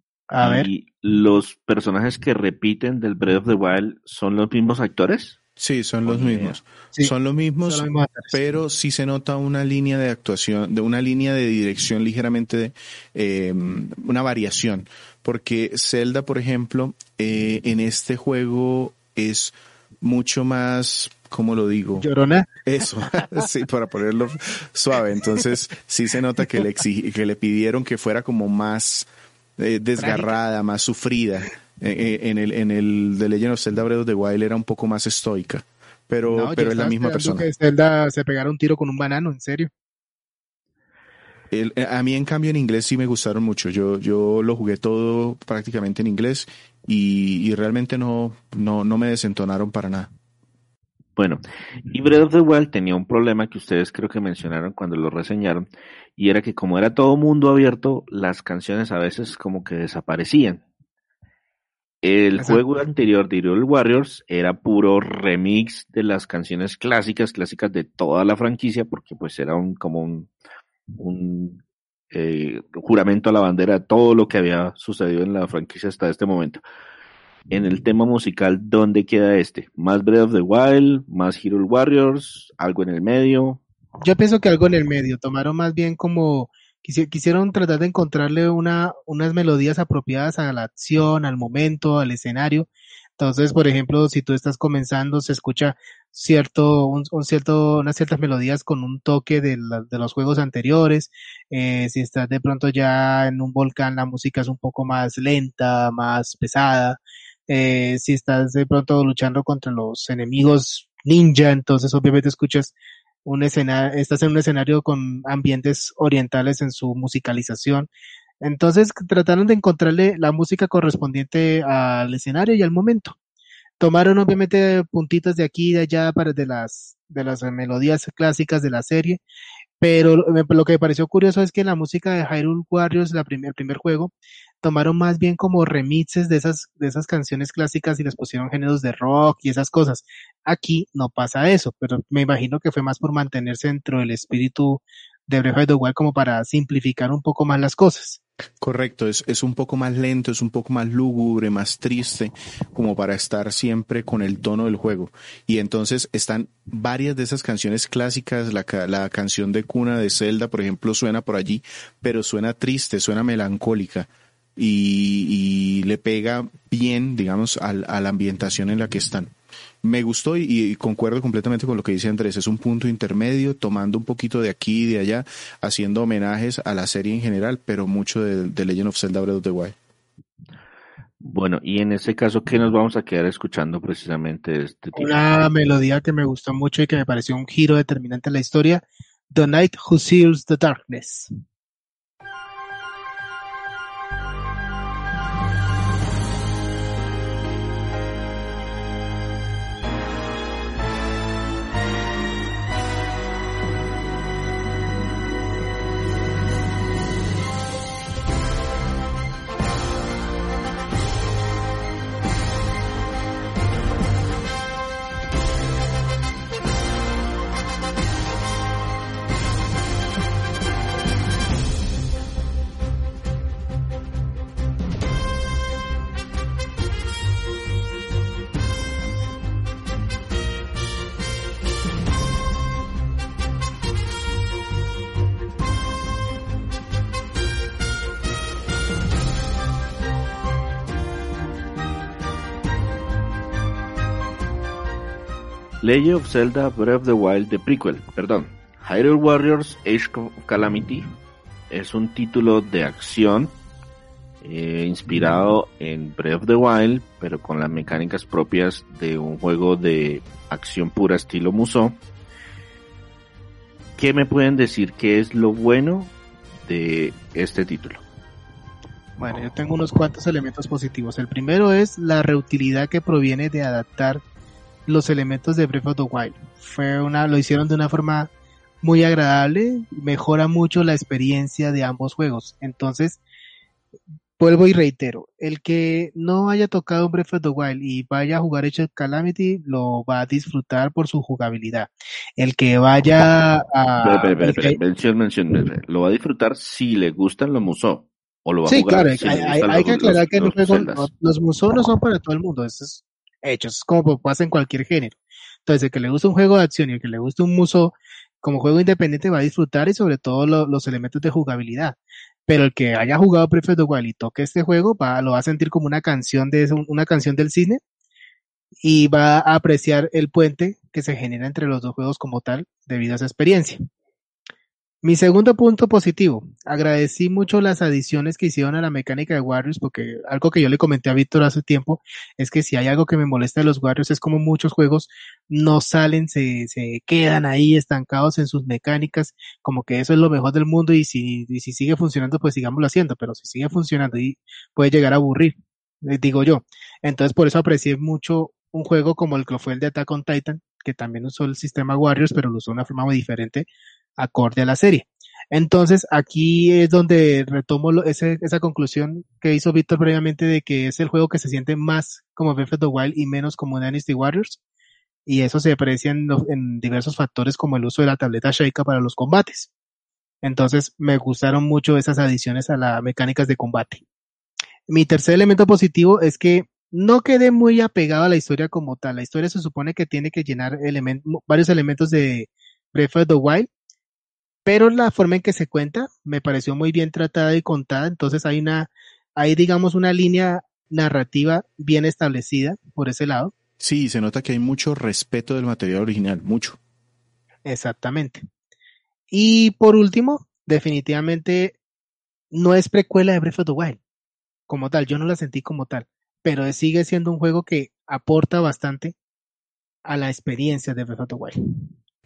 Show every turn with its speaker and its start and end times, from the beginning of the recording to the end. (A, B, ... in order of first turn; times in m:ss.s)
0:00.3-0:00.7 A
0:00.4-0:05.4 B
0:05.6-0:22.0 C
0:06.0-0:06.6 B
0:07.7-0:08.4 A
0:22.0-0:22.5 A
0:22.6-0:37.4 C
0:30.0-0:30.4 A
0:36.3-0:39.7 A
0:41.5-0:50.1 C
0:51.2-0:55.6 B
0:56.2-1:00.6 B
1:02.0-1:10.3 B
1:11.0-1:16.6 B
1:17.5-1:23.6 B
1:24.0-1:52.7 A
1:53.2-1:57.9 A
1:58.4-2:03.2 A
2:03.8-2:09.2 A
2:09.8-2:28.2 A
2:28.6-2:59.7 C
3:01.2-3:05.2 B
3:05.0-3:11.3 A
4:05.8-4:11.1 B
4:11.7-4:13.6 B
4:14.4-4:22.0 B
4:24.0-4:28.0 B
4:29.2-4:34.2 A
4:34.9-4:38.3 A
4:38.8-4:43.2 A
4:44.4-4:54.8 A
4:54.0-5:01.1 B
4:58.7-5:17.8 A
5:18.8-5:23.8 A
5:25.0-5:53.7 A
5:54.2-6:04.6 A
6:05.2-6:09.7 A
6:10.4-6:14.0 A
6:14.9-6:23.7 A
6:24.6-6:33.5 A
6:33.8-6:36.8 C
6:37.6-6:38.4 A
6:39.3-6:41.8 A
6:42.5-6:44.0 A
6:44.7-6:49.1 A
6:50.0-6:51.9 A